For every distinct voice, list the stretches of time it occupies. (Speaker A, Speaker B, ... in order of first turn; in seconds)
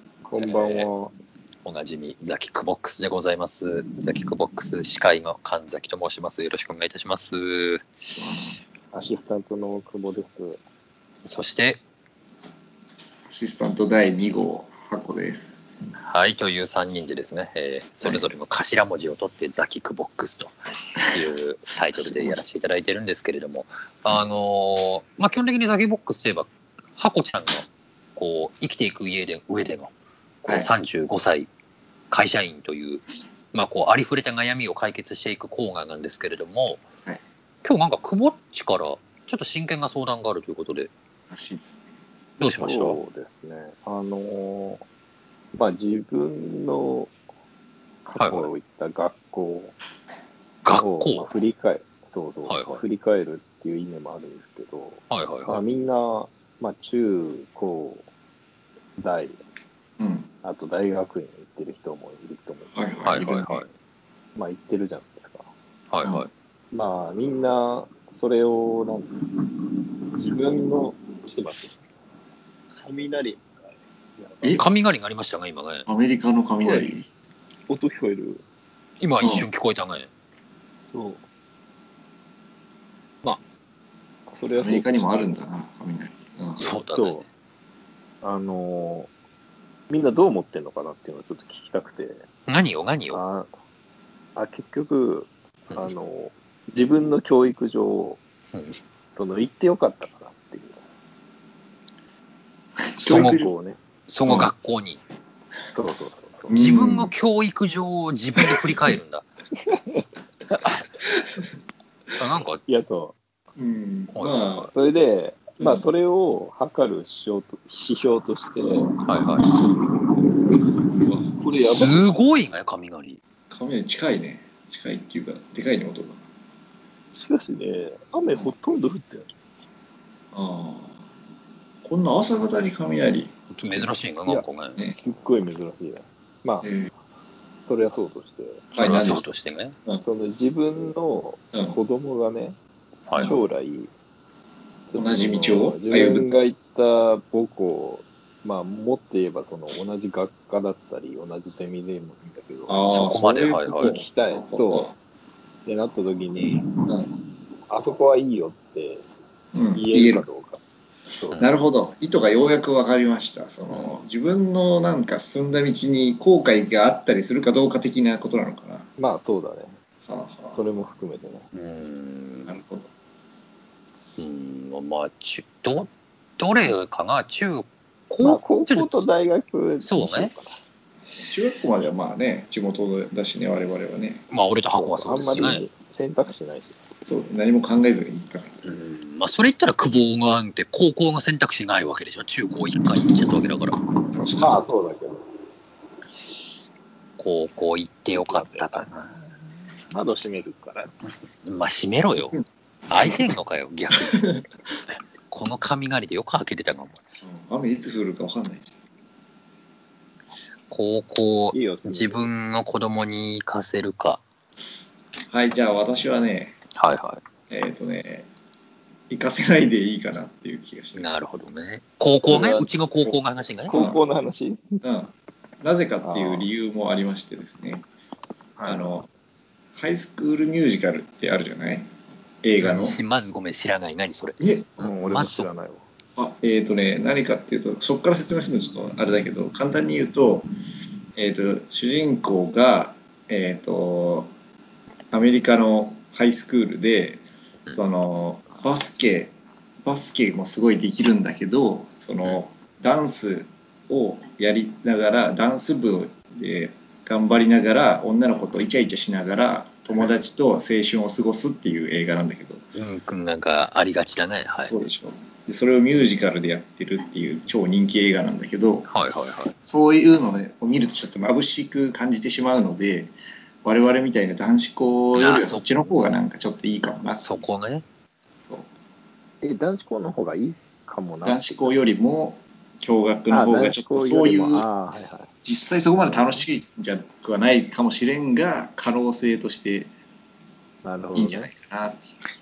Speaker A: 0.2-1.1, 8.9-10.6, 42.6-44.9, 45.5-47.1, 48.0-49.8, 50.7-58.1, 59.0-59.4, 60.4-63.6, 64.3-65.5, 66.7-69.1, 70.1-71.8, 72.7-73.5, 74.2-74.6, 76.6-76.9, 77.7-78.4, 80.9-81.2, 84.3-85.4, 86.9-87.3, 88.2-89.1, 89.9-92.2, 93.1-93.5, 94.4-98.2, 99.2-100.8, 103.1-103.8, 105.7-106.6, 109.7-110.0, 112.7-113.2, 114.7-118.9, 121.4-122.1, 127.1-129.3, 134.3-136.7, 137.6-138.7, 140.0-142.6, 143.2-143.9, 144.9-153.1, 153.8-154.9, 155.7-156.7, 157.7-159.1, 159.7-161.4, 169.0-169.8, 170.5-171.5, 178.2-180.6, 184.7-186.8, 194.4-195.2, 198.1-198.9, 199.9-200.9, 211.5-212.3, 222.3-222.7, 223.7-224.8, 226.0-226.5, 228.6-229.0, 234.8-235.8, 279.4-281.5, 283.3-285.3, 286.0-286.4, 290.8-291.5
Speaker B: 0.4-0.9, 1.6-7.9, 11.2-11.8, 16.0-27.6, 28.2-29.9, 30.4-31.5, 32.1-36.8, 37.6-40.9, 42.4-43.0, 48.2-48.5, 50.6-51.3, 52.5-52.8, 55.1-55.6, 63.0-63.7, 65.9-66.3, 74.6-75.9, 79.0-80.1, 86.6-87.2, 92.5-93.2, 98.5-98.8, 103.0-103.4, 104.1-105.0, 106.6-109.3, 112.2-112.6, 114.2-114.7, 119.1-119.5, 121.7-123.2, 133.6-134.8, 138.7-139.8, 152.9-154.0, 171.5-172.6, 174.2-179.0, 179.8-180.3, 184.3-185.6, 188.6-193.8, 197.2-199.2, 201.4-202.4, 202.9-204.3, 205.3-207.0, 210.7-214.2, 216.8-217.2, 220.9-223.8, 232.6-235.5, 262.8-264.7, 268.9-269.6, 275.1-275.6, 277.2-277.8
Speaker C: 8.2-8.5, 13.3-15.6, 18.0-18.3, 22.0-22.4, 41.3-41.8, 60.0-60.3, 62.7-63.3, 74.4-74.7, 75.9-77.1, 79.2-79.5, 84.6-86.7, 103.0-103.5, 106.5-107.1, 108.5-108.9, 113.6-114.7, 121.0-121.3, 123.5-126.2, 130.3-130.9, 131.8-133.9, 136.6-136.9, 138.8-139.3, 143.2-143.4, 144.9-146.3, 152.7-154.9, 159.5-160.3, 161.4-168.9, 170.1-170.6, 172.4-172.9, 181.2-184.2, 187.1-188.5, 194.1-194.6, 203.0-203.3, 203.9-204.4, 207.2-208.7, 215.3-216.6, 217.5-218.3, 219.1-221.1, 223.7-224.0, 224.8-227.9, 228.7-229.1, 229.8-231.9, 232.4-233.0, 234.4-234.7, 236.2-240.5, 241.2-244.3, 245.1-262.6, 264.7-268.9, 269.6-273.1, 273.6-277.4, 281.2-284.6, 285.4-289.9, 291.1-292.2